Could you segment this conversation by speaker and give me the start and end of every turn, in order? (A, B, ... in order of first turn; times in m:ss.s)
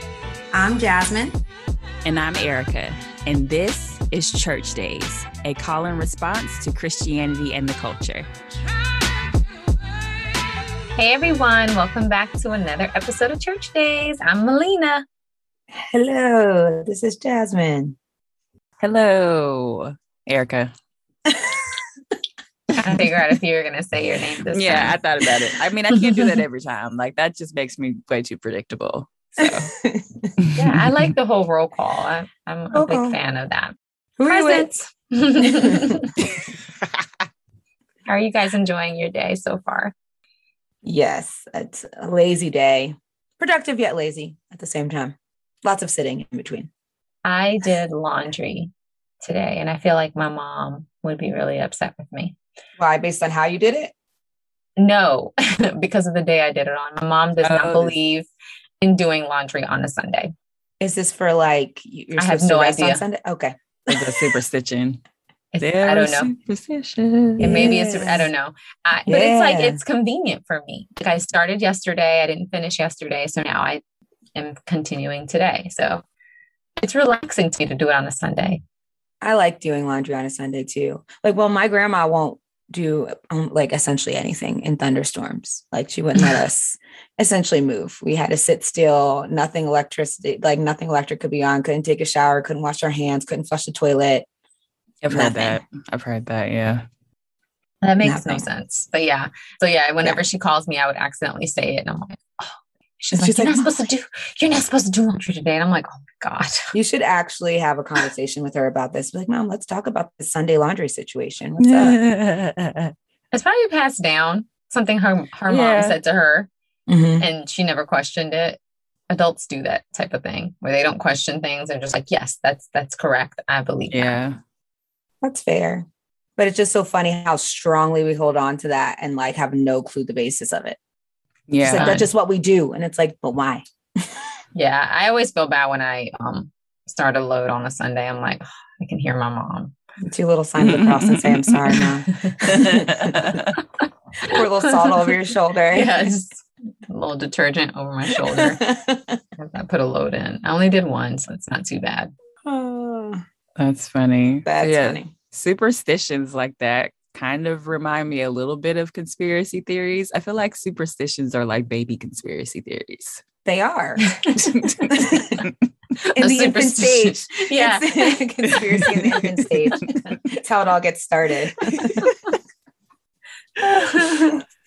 0:00.5-0:01.4 A
0:02.0-0:08.3 B
0:11.0-0:15.0 C
0:15.7-0:18.0 A
0:18.8-0:20.7 B
0:21.3-0:21.7 A
0:22.7-0:25.0 C
0:24.5-0:29.7 B
0:26.0-0:26.3 C
0:29.4-0:30.3 A
0:30.4-0:30.8 B
0:30.5-0:33.7 C
0:32.7-0:33.2 A
0:34.2-0:34.7 A
0:34.3-0:36.1 C
0:35.4-0:36.0 A
0:38.1-0:39.9 C
0:40.8-0:46.7 A
0:47.2-0:52.4 C
0:52.8-0:53.9 A
0:54.8-0:58.3 C
0:57.4-0:58.0 B
0:58.8-1:00.3 C
1:00.8-1:04.0 A
1:02.2-1:03.0 C
1:03.9-1:05.0 B
1:05.5-1:06.3 C
1:05.6-1:07.7 B
1:07.4-1:08.3 A
1:07.4-1:13.8 C
1:09.1-1:09.8 A
1:14.3-1:16.0 C
1:16.8-1:18.6 C
1:19.2-1:34.2 A
1:35.0-1:36.8 B
1:35.1-1:35.6 A
1:37.8-1:42.5 C
1:38.0-1:38.4 A
1:43.0-1:43.7 A
1:43.1-1:46.7 C
1:46.7-1:52.0 A
1:51.6-1:52.9 B
1:53.3-1:56.5 C
1:55.5-1:56.0 B
1:56.9-1:57.2 A
1:57.2-2:04.2 C
2:03.9-2:04.4 B
2:05.2-2:10.8 A
2:11.5-2:12.0 B
2:11.6-2:14.3 A
2:11.7-2:12.0 C
2:14.5-2:19.7 C
2:20.0-2:23.4 A
2:20.6-2:21.8 B
2:22.4-2:23.6 B
2:24.2-2:25.1 C
2:24.2-2:26.2 A
2:25.7-2:28.6 C
2:28.3-2:29.2 A
2:29.4-2:32.1 C
2:32.4-2:33.2 A
2:33.6-2:43.2 B
2:34.4-2:35.1 A
2:43.4-2:45.5 A
2:44.3-2:45.5 B
2:46.0-2:48.2 C
2:46.2-2:52.1 A
2:48.6-2:49.2 B
2:51.8-2:52.3 B
2:53.6-2:54.4 C
2:53.6-2:54.4 A